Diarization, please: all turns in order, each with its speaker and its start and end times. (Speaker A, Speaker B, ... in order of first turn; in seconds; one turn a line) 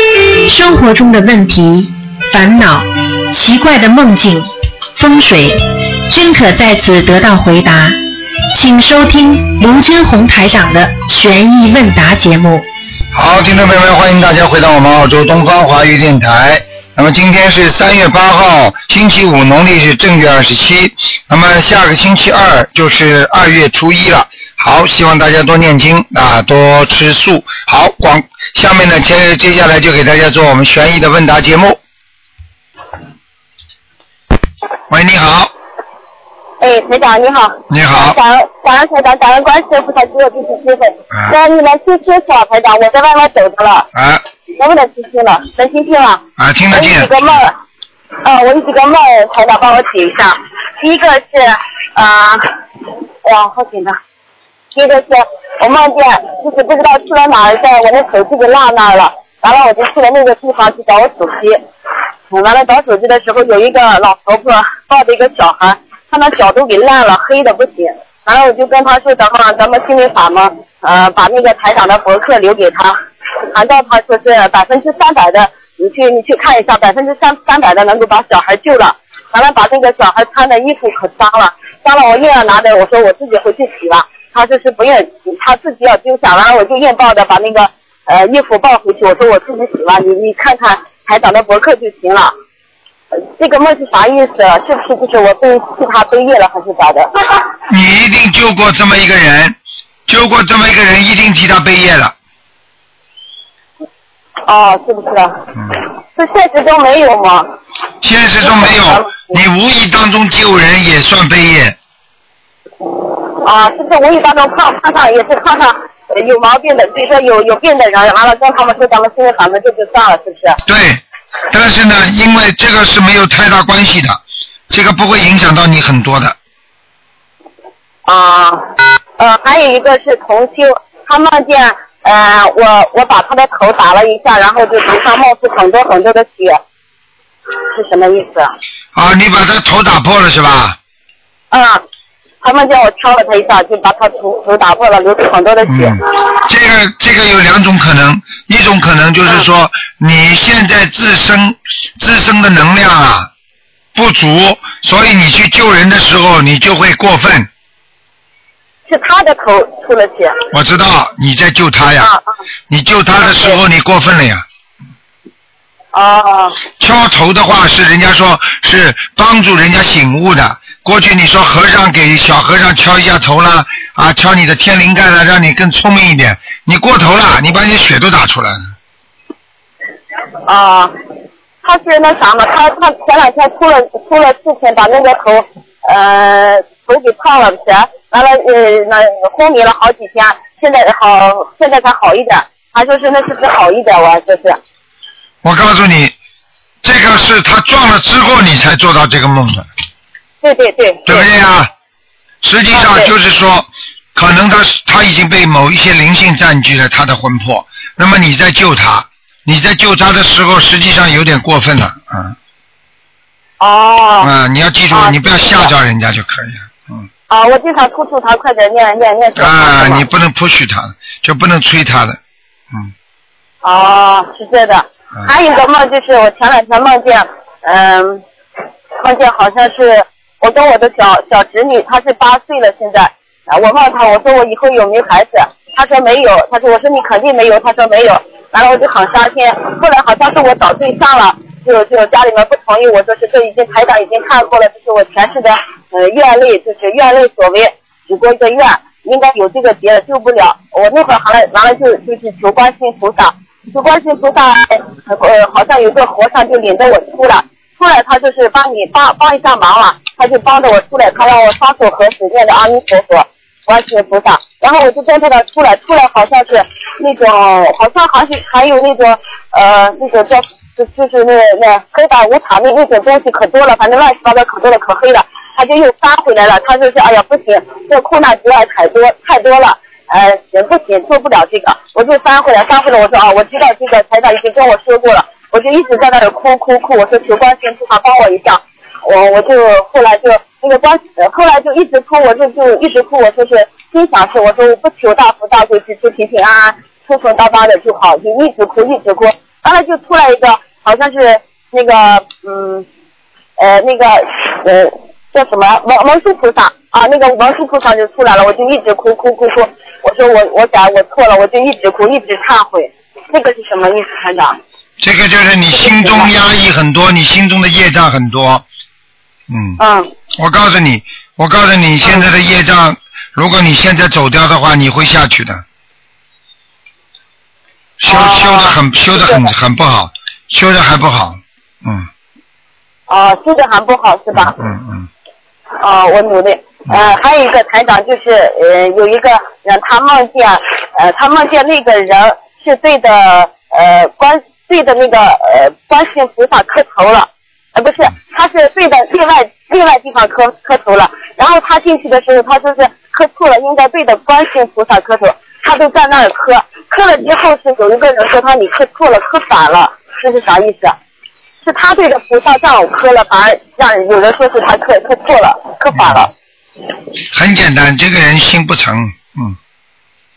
Speaker A: 0.5-8.0
Speaker A: 8.5-12.7
Speaker B: 13.1-31.8
Speaker B: 34.9-35.5
Speaker C: 36.6-43.9
Speaker B: 37.7-38.2
Speaker B: 43.9-44.2
Speaker C: 44.6-47.5
Speaker B: 46.4-47.1
Speaker C: 48.2-52.5
Speaker C: 53.2-54.0
Speaker C: 54.7-61.6
Speaker C: 62.3-72.9
Speaker C: 73.5-92.3
Speaker C: 93.4-97.1
Speaker B: 97.7-99.5
Speaker B: 100.1-102.1
Speaker C: 104.5-105.4
Speaker C: 106.2-107.5
Speaker B: 108.0-111.8
Speaker C: 108.4-109.3
Speaker C: 113.4-120.6
Speaker B: 120.7-126.3
Speaker C: 128.1-136.6
Speaker C: 137.7-138.5
Speaker B: 138.9-140.8
Speaker C: 141.5-141.8
Speaker C: 142.4-146.0
Speaker B: 145.6-153.3
Speaker B: 153.9-157.5
Speaker C: 158.9-160.4
Speaker B: 160.5-162.1
Speaker B: 162.7-164.4
Speaker C: 163.2-163.6
Speaker C: 165.9-166.6
Speaker B: 166.8-178.7
Speaker C: 180.5-180.9
Speaker C: 181.6-194.6
Speaker B: 195.4-196.1
Speaker B: 196.8-199.7
Speaker C: 200.4-201.3
Speaker B: 201.1-201.7
Speaker B: 202.4-212.3
Speaker C: 202.7-203.1
Speaker C: 213.6-214.3
Speaker B: 214.2-217.1
Speaker C: 214.9-215.7
Speaker C: 217.3-220.0
Speaker B: 219.3-222.2
Speaker C: 223.6-228.2
Speaker C: 229.0-302.9
Speaker C: 303.6-314.6
Speaker B: 315.0-318.6
Speaker C: 315.7-316.3
Speaker B: 319.5-319.8
Speaker C: 319.8-320.1
Speaker B: 320.4-325.6
Speaker B: 328.0-332.1
Speaker C: 328.1-329.5
Speaker C: 333.1-334.6
Speaker B: 334.3-335.1
Speaker C: 335.8-360.9
Speaker C: 361.6-366.3
Speaker B: 367.3-369.6